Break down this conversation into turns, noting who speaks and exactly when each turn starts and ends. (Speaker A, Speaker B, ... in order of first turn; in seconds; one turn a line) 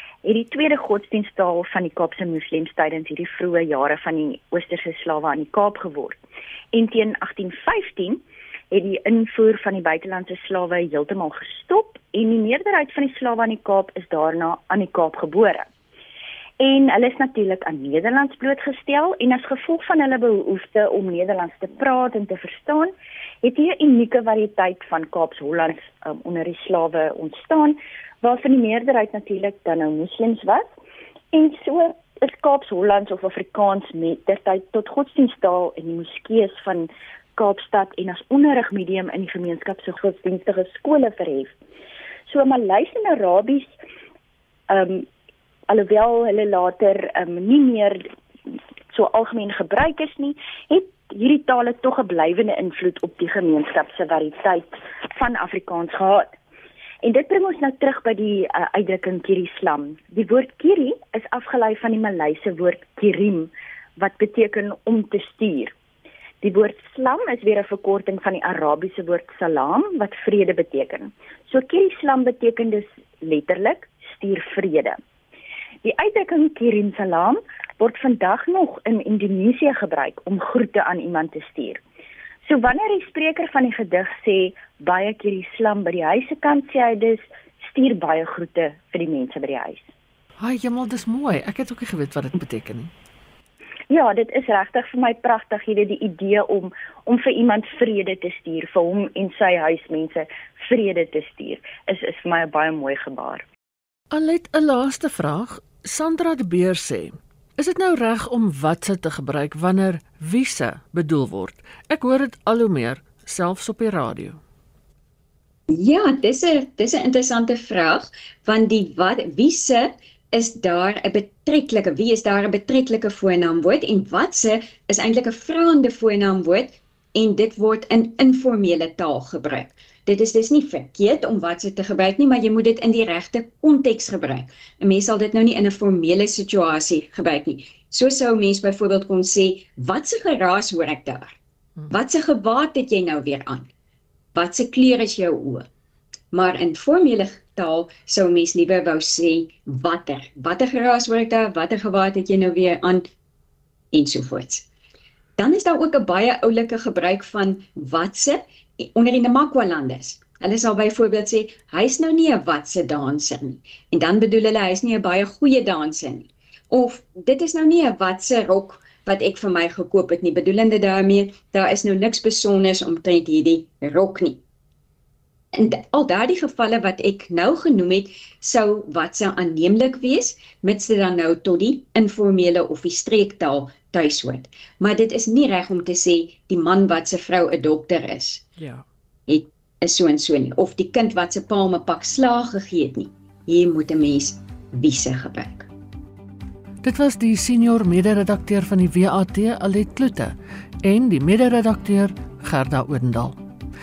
Speaker A: 0.2-6.2
Speaker A: 6.7-15.7
Speaker A: 16.6-22.9
Speaker A: 23.4-30.6
Speaker A: 31.3-41.6
Speaker A: 42.3-43.7
Speaker A: 44.7-45.1
Speaker A: 45.7-48.0
Speaker A: 48.9-56.3
Speaker A: 57.0-65.7
Speaker A: 66.4-75.0
Speaker A: 75.8-81.8
Speaker A: 82.5-89.9
Speaker B: 90.4-92.9
Speaker A: 93.9-103.5
Speaker B: 104.1-114.4
Speaker C: 115.7-141.4
Speaker C: 141.9-143.7
Speaker C: 144.3-145.7
Speaker C: 146.3-153.1
Speaker C: 153.9-154.7
Speaker C: 155.4-174.4
Speaker C: 175.5-188.5
Speaker B: 188.6-188.8
Speaker C: 189.3-195.7
Speaker B: 196.8-203.4